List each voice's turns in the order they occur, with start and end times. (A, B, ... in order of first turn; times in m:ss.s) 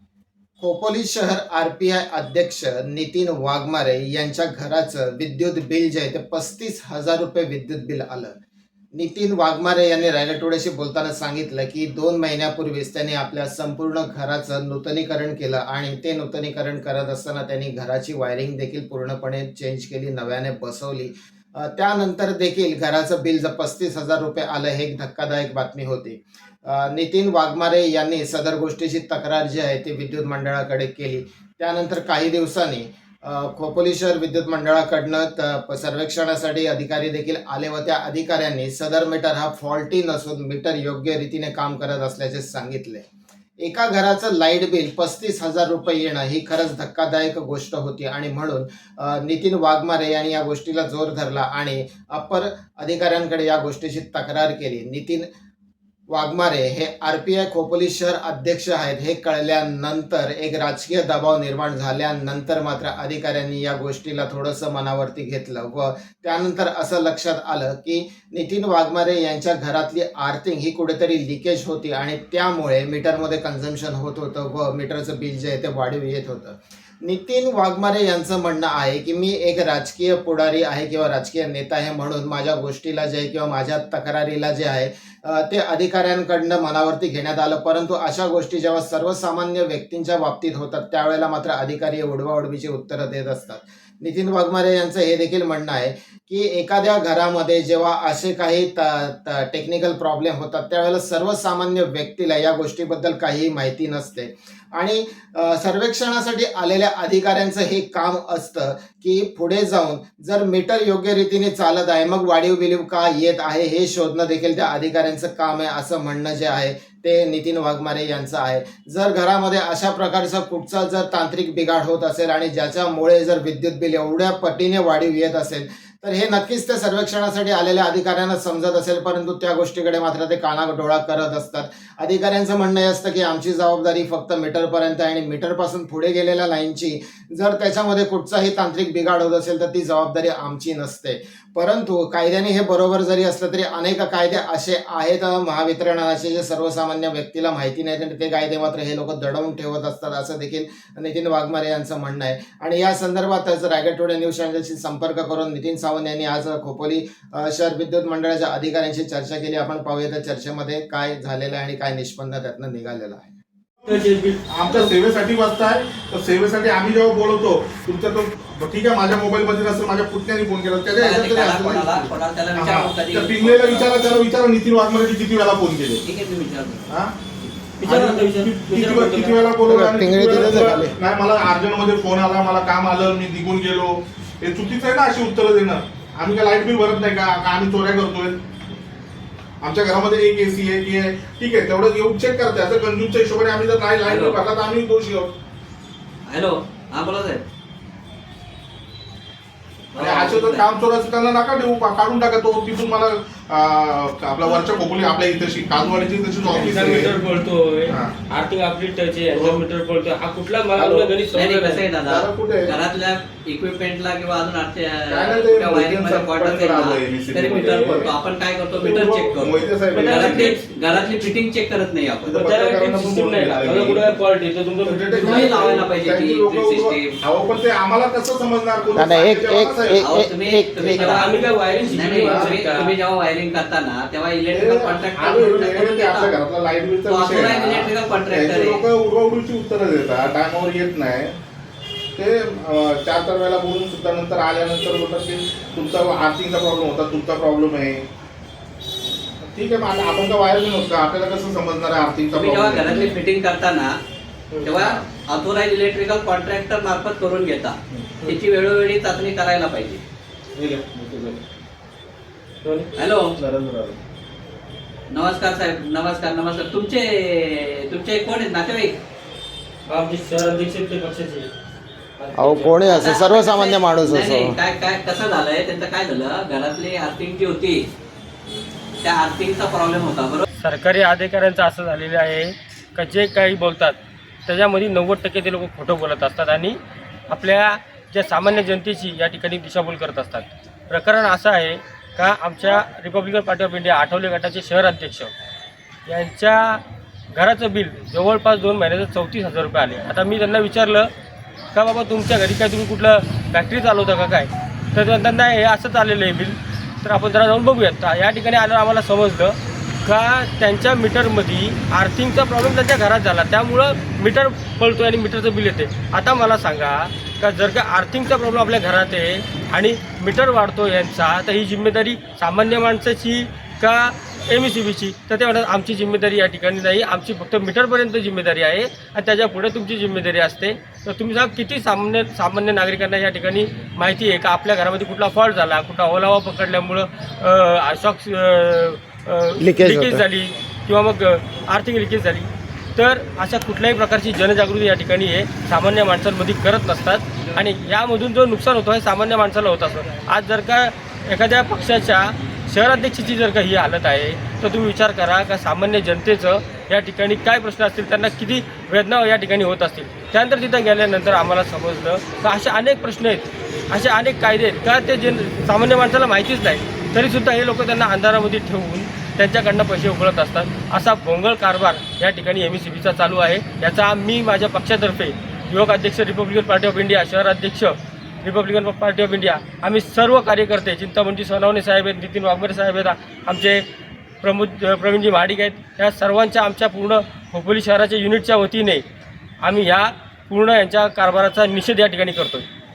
0:00.6-0:08.3 A
0:09.0-0:43.0 A
0:43.6-0:55.3 A
0:56.1-2:43.3 A
2:43.8-2:56.0 B
2:43.9-2:44.9 C
2:51.0-2:54.2 D
2:56.0-2:56.9 D
2:56.9-2:57.2 B
2:57.8-2:59.5 C
2:57.8-3:08.4 B
2:59.7-3:01.0 A
3:09.6-3:15.4 B
3:14.1-3:14.4 D
3:16.3-3:17.4 D
3:19.9-3:20.6 D
3:20.0-3:27.2 B
3:26.5-3:31.9 C
3:27.9-3:28.2 B
3:30.8-3:31.1 B
3:31.3-3:42.4 D
3:32.0-3:32.7 B
3:35.1-3:38.1 B
3:38.8-3:40.5 B
3:39.9-3:40.6 C
3:42.3-3:44.2 B
3:42.3-3:45.8 C
3:44.8-3:50.0 B
3:45.2-3:47.1 D
3:49.0-3:51.2 A
3:50.0-3:56.4 D
3:50.8-3:52.9 C
3:52.2-3:52.5 B
3:54.5-4:01.4 B
3:57.1-3:58.8 D
4:02.2-4:08.1 B
4:09.4-4:13.1 B
4:12.3-4:13.9 D
4:14.5-4:14.9 C
4:14.6-4:20.0 D
4:20.6-4:21.4 B
4:22.6-4:22.9 C
4:23.0-4:23.3 D
4:23.4-4:24.0 B
4:25.1-4:29.0 D
4:29.9-4:31.5 C
4:32.2-4:32.8 C
4:32.4-4:34.6 A
4:32.9-4:37.8 D
4:39.0-4:40.5 D
4:40.6-4:46.8 C
4:47.3-4:55.3 C
4:56.1-5:01.1 C
5:01.7-6:23.8 C
5:39.6-5:40.2 A
6:24.4-6:29.0 C
6:29.6-6:32.6 C